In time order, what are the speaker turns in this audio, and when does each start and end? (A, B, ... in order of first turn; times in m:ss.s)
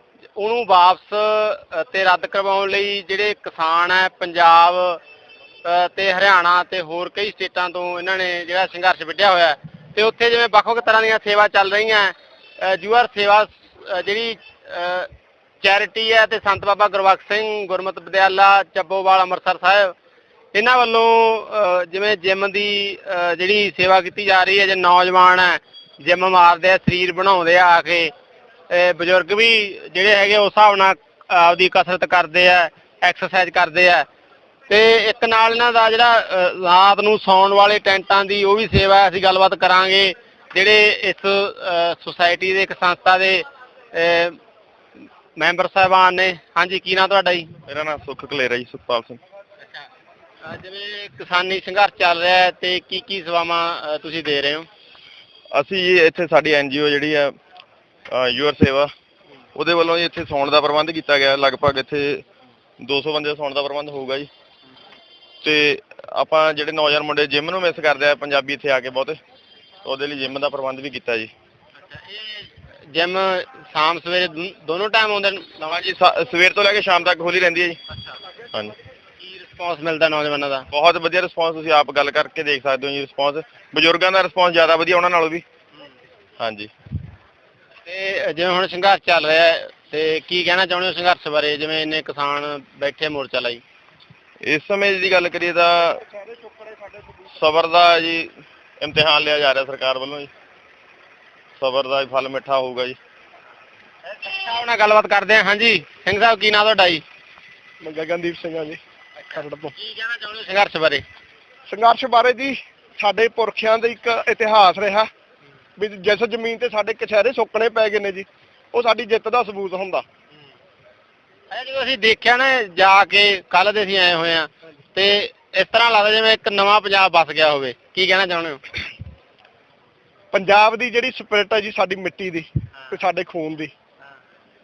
0:00.4-0:05.0 A
0:05.6-0:15.1 A
0:15.6-0:19.9 A
0:20.5-0:28.1 A
0:28.7-0:34.1 A
0:34.7-0:44.4 A
0:45.4-0:47.5 A
0:47.7-0:49.2 B
0:50.4-0:54.7 A
0:55.5-0:57.3 B
0:58.1-0:58.9 B
0:59.6-1:02.2 B
1:02.8-1:04.3 B
1:05.4-1:09.2 B
1:09.8-1:11.3 B
1:11.8-1:15.7 A
1:15.7-1:17.8 B
1:19.2-1:20.7 A
1:20.7-1:25.4 B
1:26.4-1:26.7 B
1:27.9-1:33.6 A
1:34.4-1:36.0 B
1:37.3-1:40.3 B
1:41.6-1:43.0 B
1:44.1-1:47.0 A
1:47.8-1:48.8 C
1:49.3-1:49.7 C
1:49.8-1:51.0 A
1:51.7-1:55.1 C
1:55.8-2:00.0 C
2:01.5-2:08.6 A
2:10.3-2:13.7 C